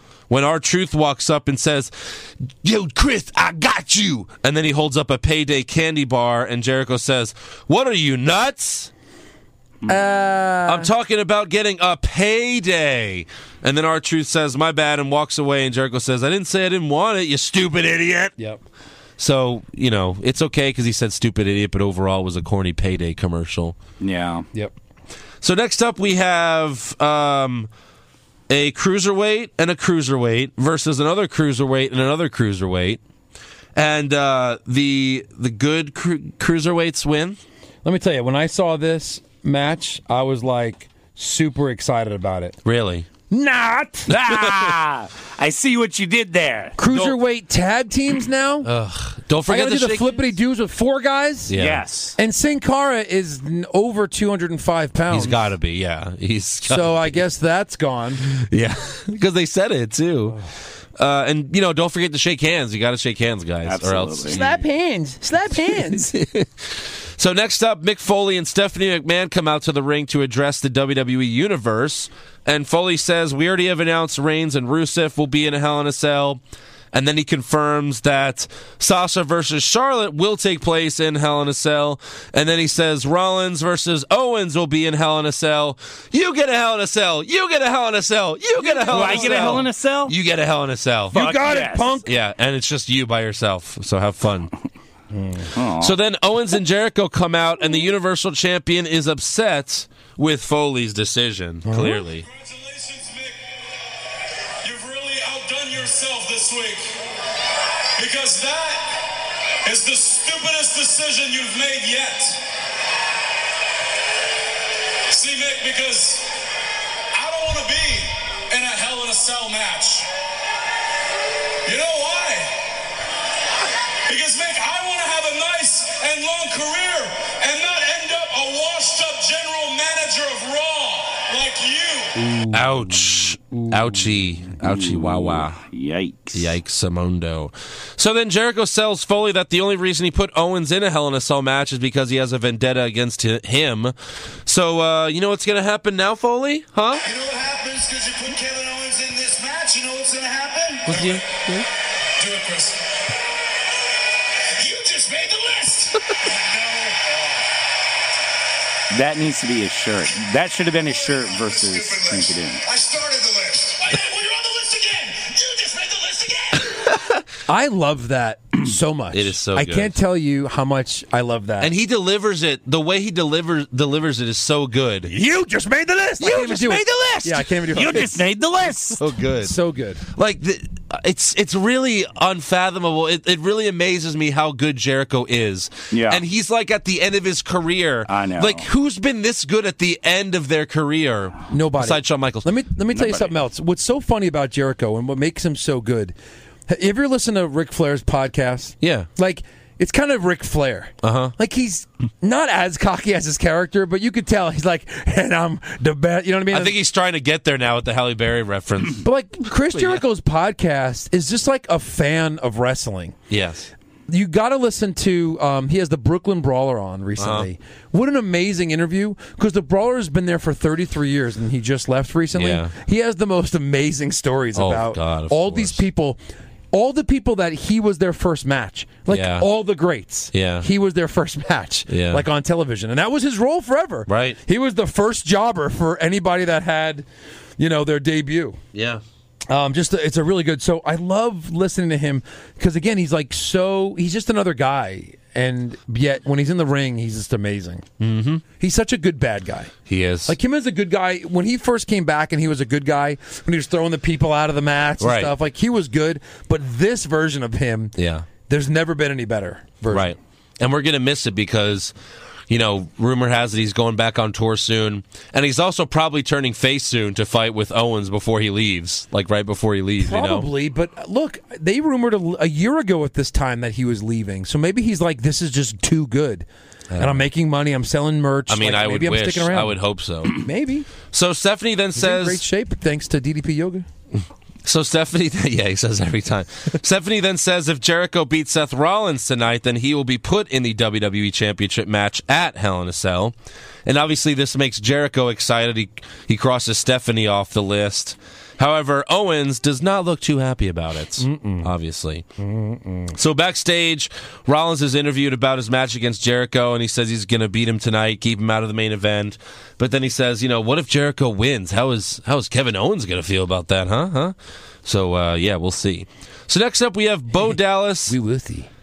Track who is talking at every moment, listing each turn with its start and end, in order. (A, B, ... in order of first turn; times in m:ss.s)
0:00.3-0:08.9 A
0:09.9-0:10.9 B
0:10.6-0:18.3 A
0:19.2-0:23.8 A
0:24.0-0:24.5 C
0:25.4-0:27.7 A
0:28.5-0:33.0 A
0:33.8-0:37.4 A
0:37.8-0:42.6 B
0:42.6-0:43.1 A
0:43.3-0:44.1 B
0:44.1-0:46.8 C
0:46.8-0:48.7 B
0:46.9-0:47.2 A
0:48.6-0:50.3 A
0:49.5-0:51.6 B
0:51.5-0:51.8 A
0:51.6-0:52.2 C
0:52.2-0:55.5 B
0:55.1-0:57.2 A
0:56.6-0:58.3 B
0:58.3-1:00.4 A
1:01.0-1:04.6 A
1:03.7-1:04.4 C
1:04.3-1:06.1 B
1:05.5-1:31.4 A
1:28.6-1:29.6 B
1:28.8-1:30.1 C
1:31.1-1:32.1 B
1:31.1-1:32.0 C
1:32.0-1:34.5 A
1:35.1-1:35.5 B
1:35.6-1:36.0 C
1:35.8-1:42.3 A
1:41.7-1:42.0 B
1:42.2-1:43.4 D
1:44.6-1:46.9 D
1:48.0-1:48.8 D
1:49.6-1:52.4 D
1:55.1-1:56.3 D
1:57.1-2:00.1 D
2:01.7-2:02.5 D
2:04.1-2:12.2 D
2:12.2-2:14.2 B
2:12.5-2:15.6 A
2:14.6-2:16.5 C
2:16.3-2:27.0 A
2:27.0-2:31.3 D
2:30.9-2:31.7 A
2:32.2-2:32.8 D
2:34.6-2:37.4 D
2:38.9-2:42.6 C
2:40.8-2:46.9 D
2:47.5-2:51.7 B
2:49.1-2:50.0 A
2:51.6-2:55.1 A
2:55.1-2:58.2 B
2:56.2-2:57.8 A
2:56.9-2:59.0 C
2:59.0-2:59.6 A
2:59.4-3:00.0 B
3:00.1-3:13.3 A
3:05.9-3:06.2 C
3:08.1-3:08.7 C
3:11.5-3:16.2 B
3:16.7-3:26.8 B
3:18.8-3:19.1 A
3:21.0-3:21.4 A
3:26.5-3:29.0 A
3:29.0-3:33.2 B
3:29.7-3:30.0 A
3:33.3-3:33.7 A
3:34.1-3:46.2 B
3:37.2-3:37.5 A
3:42.3-3:42.7 A
3:44.6-3:45.8 A
3:46.7-3:57.1 B
3:49.1-3:49.5 A
3:50.3-3:50.7 A
3:51.9-3:52.2 A
3:54.1-3:54.4 A
3:57.6-3:58.6 B
3:58.7-3:59.0 A
3:59.5-4:07.9 B
4:08.0-4:08.4 A
4:08.6-4:09.7 B
4:09.9-4:10.4 A
4:10.3-4:18.0 B
4:15.0-4:15.3 A
4:18.0-4:18.3 A
4:18.5-4:20.2 B
4:19.9-4:21.9 A
4:22.5-4:30.5 A
4:30.0-4:36.5 B
4:36.9-4:37.3 A
4:37.0-4:40.9 B
4:38.5-4:40.4 A
4:41.1-4:42.4 A
4:42.0-4:43.9 B
4:44.6-5:02.3 A
5:01.2-5:01.7 B
5:02.4-5:03.2 B
5:03.1-5:18.2 A
5:18.1-5:18.7 B